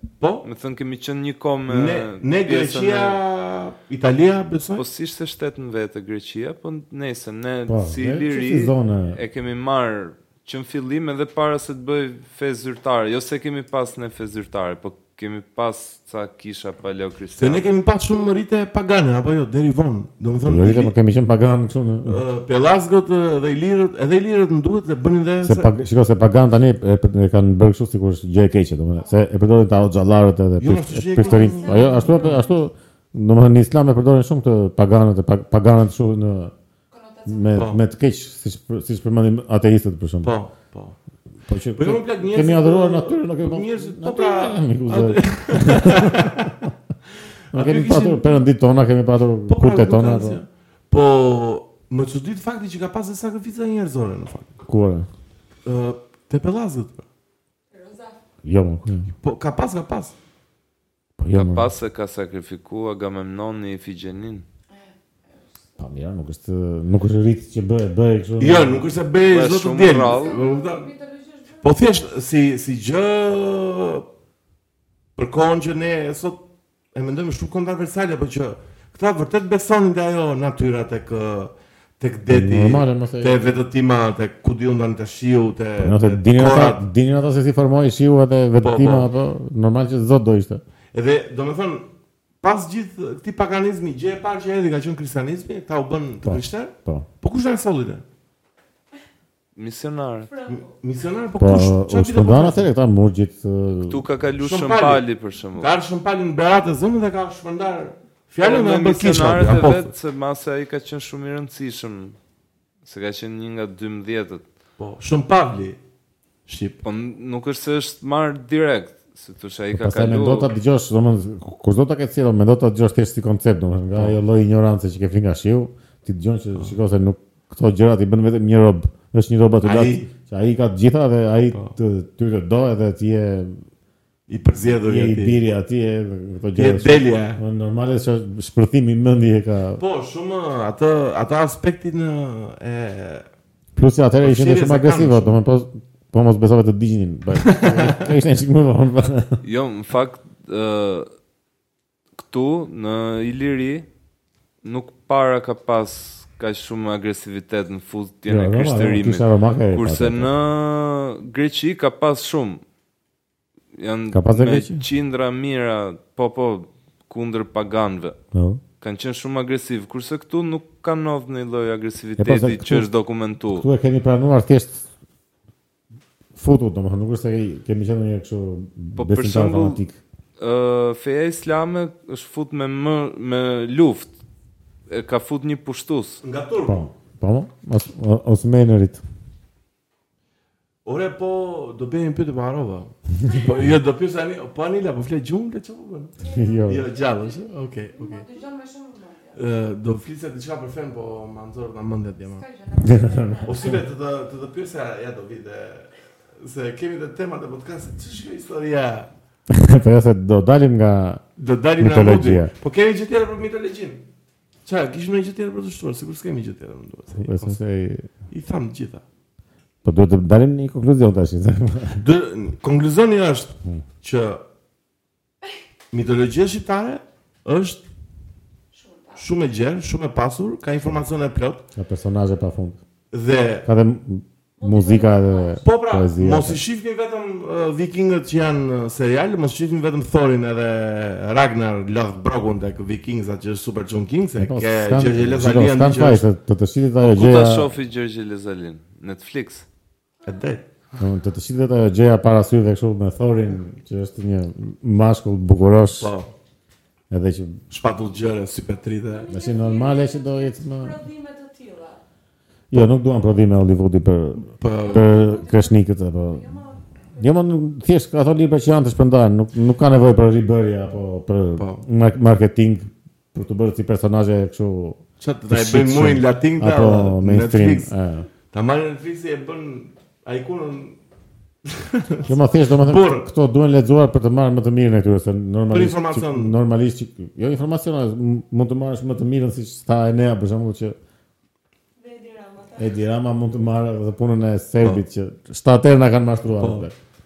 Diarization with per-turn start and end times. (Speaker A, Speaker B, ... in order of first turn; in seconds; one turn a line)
Speaker A: 0.2-0.5
Speaker B: 0.4-3.2
Speaker A: 1.7-4.8
Speaker B: 4.8-17.6
Speaker C: 7.7-9.2
Speaker A: 17.4-20.9
Speaker C: 20.4-22.2
Speaker A: 22.1-25.7
Speaker C: 25.4-36.5
Speaker D: 28.9-29.2
Speaker A: 30.6-32.5
Speaker D: 31.2-32.6
Speaker D: 36.9-37.7
Speaker C: 37.3-40.3
Speaker A: 37.5-37.8
Speaker A: 40.2-41.0
Speaker C: 41.5-46.7
Speaker A: 41.8-46.5
Speaker A: 47.5-48.4
Speaker C: 47.5-50.4
Speaker A: 49.5-54.6
Speaker C: 54.6-55.1
Speaker A: 55.6-57.0
Speaker D: 57.7-58.2
Speaker C: 58.4-59.1
Speaker A: 59.2-60.1
Speaker C: 61.2-61.7
Speaker B: 61.3-64.4
Speaker D: 64.7-65.8
Speaker C: 65.8-68.9
Speaker A: 68.4-70.9
Speaker B: 69.2-70.3
Speaker D: 70.0-71.9
Speaker A: 71.6-74.0
Speaker A: 75.2-86.8
Speaker C: 82.3-83.5
Speaker C: 85.8-90.6
Speaker A: 88.6-89.1
Speaker A: 90.9-91.9
Speaker A: 92.4-98.0
Speaker C: 96.2-97.1
Speaker B: 99.5-100.3
Speaker D: 100.3-100.7
Speaker A: 100.5-102.7
Speaker C: 101.4-104.0
Speaker B: 103.8-105.7
Speaker A: 104.4-105.0
Speaker A: 105.6-109.9
Speaker B: 108.4-112.2
Speaker B: 112.8-114.4
Speaker A: 114.8-115.8
Speaker A: 116.5-116.8
Speaker B: 116.8-120.5
Speaker C: 119.7-133.6
Speaker A: 129.6-130.1
Speaker A: 134.3-135.4
Speaker C: 134.8-139.8
Speaker A: 136.6-137.4
Speaker A: 139.8-143.2
Speaker C: 143.8-149.4
Speaker A: 144.2-145.4
Speaker A: 147.4-148.1
Speaker B: 149.4-151.1
Speaker B: 152.2-153.8
Speaker B: 154.6-162.6
Speaker C: 158.3-160.3
Speaker B: 163.7-168.2
Speaker C: 164.1-164.8
Speaker C: 168.3-168.6
Speaker B: 168.8-173.7
Speaker C: 172.2-172.9
Speaker C: 173.5-174.8
Speaker C: 176.3-180.0
Speaker B: 179.0-179.8
Speaker B: 180.4-184.1
Speaker B: 184.9-186.2
Speaker A: 186.2-186.9
Speaker C: 186.7-189.0
Speaker A: 190.8-196.1
Speaker D: 196.2-199.5
Speaker C: 196.2-196.8
Speaker A: 196.7-198.2
Speaker A: 199.3-202.4
Speaker D: 202.2-203.7
Speaker C: 202.8-203.8
Speaker A: 203.4-209.1
Speaker C: 209.5-211.2
Speaker A: 211.4-214.0
Speaker C: 211.8-212.5
Speaker A: 214.6-217.6
Speaker C: 217.2-218.1
Speaker A: 218.3-219.0
Speaker C: 219.8-222.0
Speaker A: 221.9-224.4
Speaker A: 225.9-227.8
Speaker D: 228.7-229.2
Speaker A: 229.2-231.7
Speaker C: 231.7-232.8
Speaker A: 233.1-233.7
Speaker C: 233.6-236.6
Speaker D: 234.6-235.6
Speaker A: 235.6-246.2
Speaker C: 244.4-247.7
Speaker B: 247.0-249.7
Speaker A: 250.2-250.6
Speaker C: 251.0-256.1
Speaker A: 256.0-256.3
Speaker C: 257.1-257.6
Speaker A: 257.7-259.3
Speaker D: 259.1-262.0
Speaker C: 259.3-260.9
Speaker C: 262.7-266.5
Speaker A: 264.5-265.2
Speaker D: 264.9-267.3
Speaker C: 267.2-278.3
Speaker A: 271.6-271.8
Speaker A: 275.2-277.9
Speaker A: 278.5-281.0
Speaker A: 281.6-283.2
Speaker D: 282.2-282.8
Speaker C: 282.3-290.9
Speaker A: 285.7-286.5
Speaker D: 292.0-292.9
Speaker C: 292.8-296.9
Speaker A: 296.6-296.9